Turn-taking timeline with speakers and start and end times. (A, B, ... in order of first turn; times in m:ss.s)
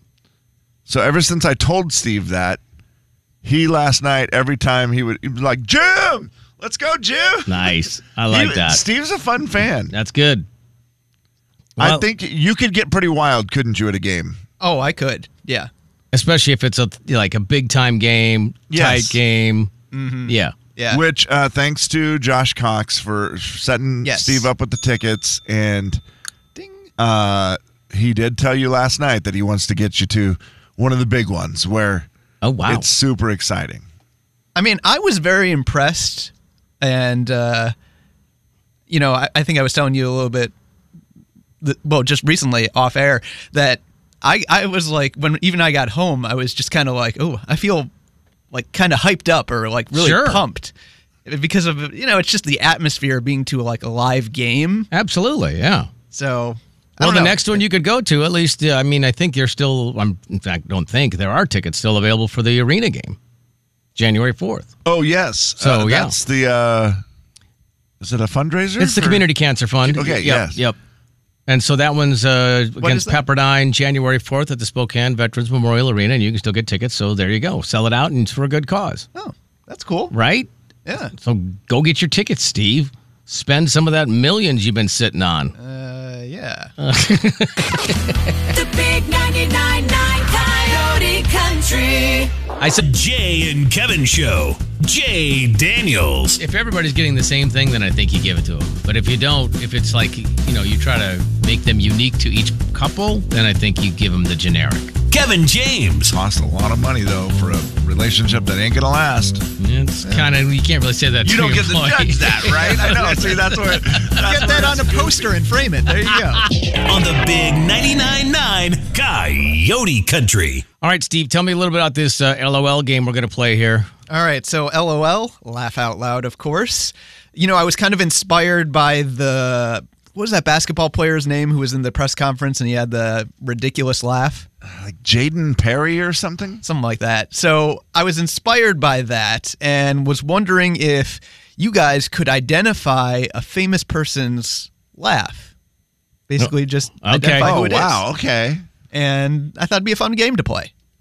0:00.9-0:02.6 A
0:03.4-0:07.8 A
0:07.5-0:08.8 B
0:08.3-0:09.9 A
0:09.9-0:10.4 B
0:11.8-0:12.0 B
0:11.8-0:14.4 A
0:14.6-0:15.7 C
0:16.1-0:19.7 B
0:18.7-0:19.2 A
0:19.9-0:21.0 C
0:20.3-0:20.5 B
0:20.9-0:26.0 A
0:24.0-0:24.5 C
0:26.5-0:26.9 C
0:27.0-0:32.1 A
0:32.4-0:32.8 B
0:32.6-0:33.8 A
0:34.5-0:37.7 C
0:38.9-0:40.5 C
0:41.6-0:47.9 C
0:48.5-0:50.7 C
0:49.9-0:50.4 B
0:51.2-0:54.9 C
0:54.9-0:55.9 B
0:56.1-0:57.6 C
0:57.0-1:03.2 B
1:04.0-1:04.7 B
1:04.8-1:07.0 A
1:05.6-1:06.1 B
1:08.0-1:09.2 A
1:08.8-1:10.8 B
1:09.8-1:10.6 A
1:11.5-1:19.0 B
1:12.8-1:13.2 C
1:19.1-1:20.1 C
1:20.1-1:20.5 B
1:20.8-1:21.1 C
1:21.1-1:25.5 B
1:25.6-1:26.7 C
1:26.8-1:28.0 B
1:28.5-1:32.3 D
1:32.6-1:36.4 E
1:36.4-1:44.9 B
1:45.1-1:46.1 E
1:46.0-1:49.4 A
1:49.6-1:54.1 B
1:51.2-1:55.4 A
1:54.1-1:56.5 C
1:56.8-2:00.6 E
2:00.8-2:03.9 B
2:04.1-2:14.5 C
2:14.6-2:16.6 A
2:16.6-2:25.5 C
2:26.3-2:28.0 C
2:26.4-2:27.5 B
2:27.4-2:28.6 A
2:28.9-2:30.7 C